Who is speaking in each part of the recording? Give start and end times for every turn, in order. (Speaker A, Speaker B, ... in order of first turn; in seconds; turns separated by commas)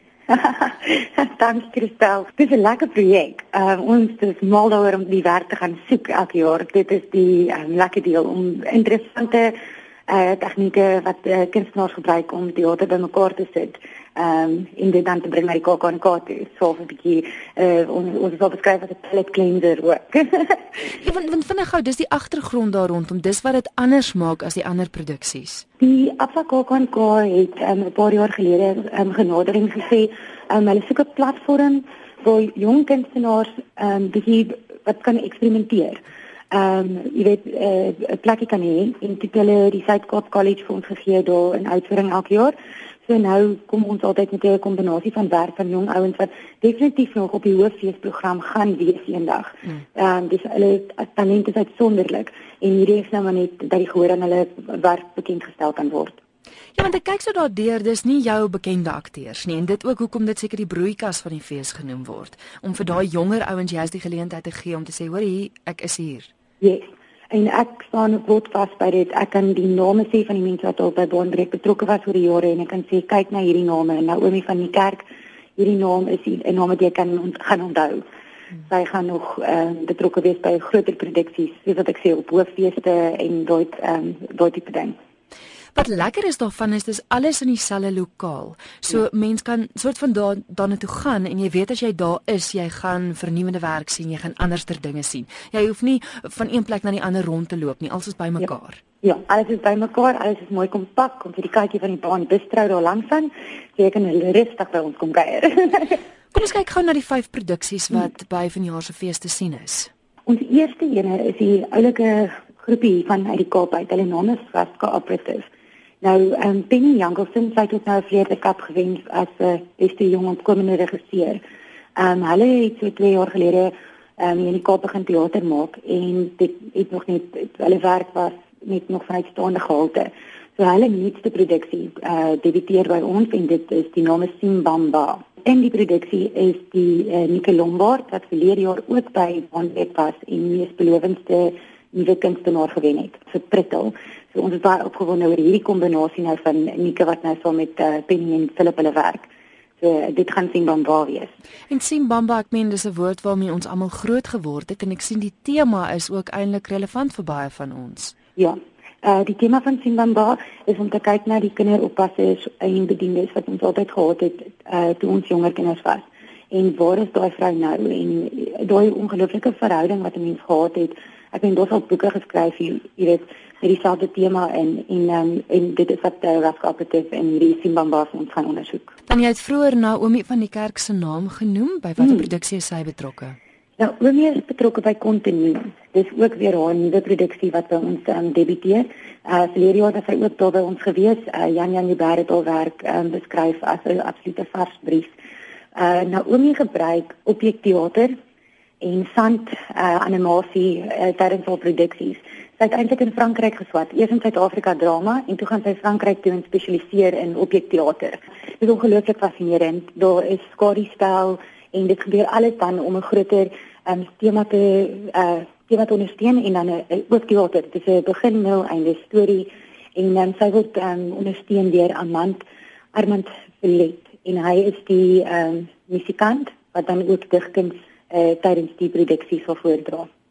Speaker A: 0.3-9.5, Speaker A: 10.1-20.6, Speaker B: 20.9-25.6, Speaker A: 25.8-36.0, Speaker A: 36.5-42.5, Speaker A: 43.0-56.2, Speaker B: 56.8-66.3, Speaker A: 66.6-75.0, Speaker A: 75.6-78.0, Speaker A: 78.7-84.9, Speaker B: 85.7-98.8, Speaker A: 99.0-106.0, Speaker B: 106.3-109.9, Speaker A: 110.2-115.4, Speaker A: 116.0-121.4, Speaker A: 122.0-149.3, Speaker A: 149.8-151.3, Speaker B: 151.7-158.1, Speaker A: 158.4-178.9, Speaker B: 179.1-183.4, Speaker A: 183.8-195.1, Speaker A: 195.7-198.1, Speaker A: 198.8-230.1